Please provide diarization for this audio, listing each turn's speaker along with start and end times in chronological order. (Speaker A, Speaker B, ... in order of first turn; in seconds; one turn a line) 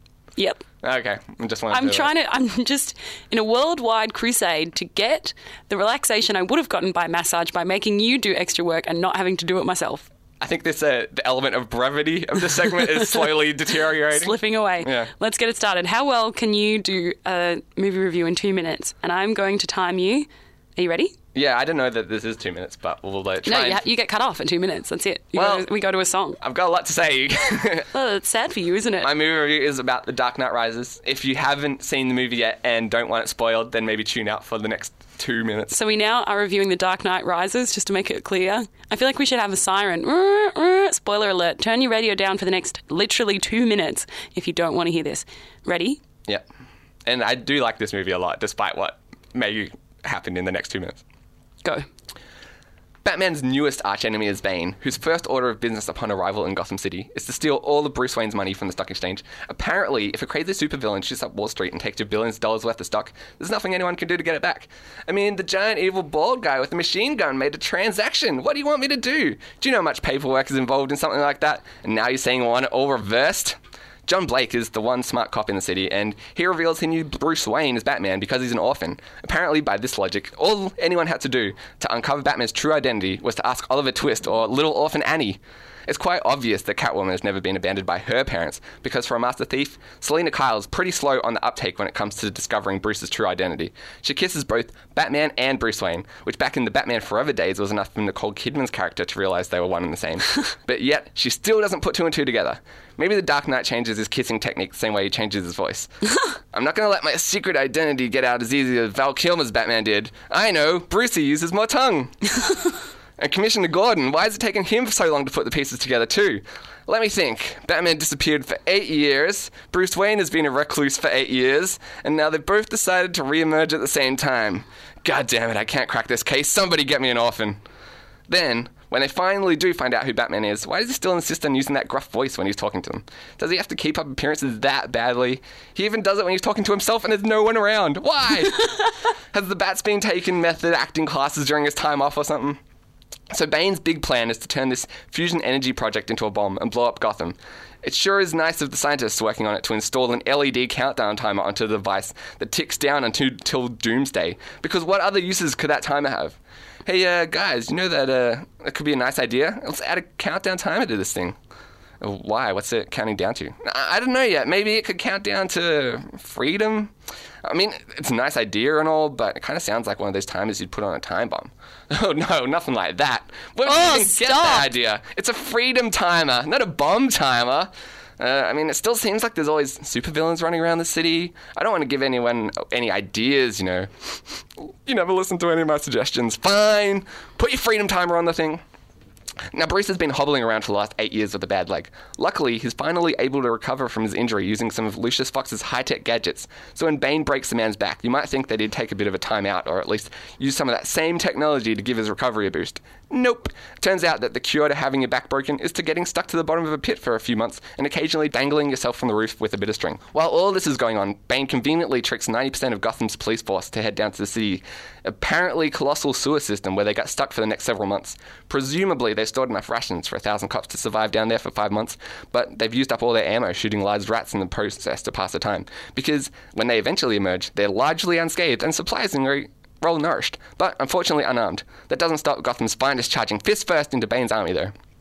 Speaker A: 0.4-0.6
Speaker B: 0.8-2.1
Speaker A: 1.7-10.1
Speaker B: 10.4-15.1
Speaker A: 12.7-13.5
Speaker A: 14.1-21.1
Speaker B: 21.3-23.8
Speaker A: 23.4-26.4
Speaker B: 25.3-25.6
Speaker B: 26.4-27.9
Speaker A: 27.9-29.1
Speaker B: 29.0-35.7
Speaker A: 35.7-46.0
Speaker B: 47.0-51.0
Speaker B: 53.0-105.9
Speaker B: 106.5-112.2
Speaker B: 113.2-127.6
Speaker B: 128.3-138.8
Speaker B: 139.3-142.6
Speaker B: 143.3-161.3
Speaker B: 162.0-188.6
Speaker A: 173.6-174.7
Speaker B: 189.5-234.7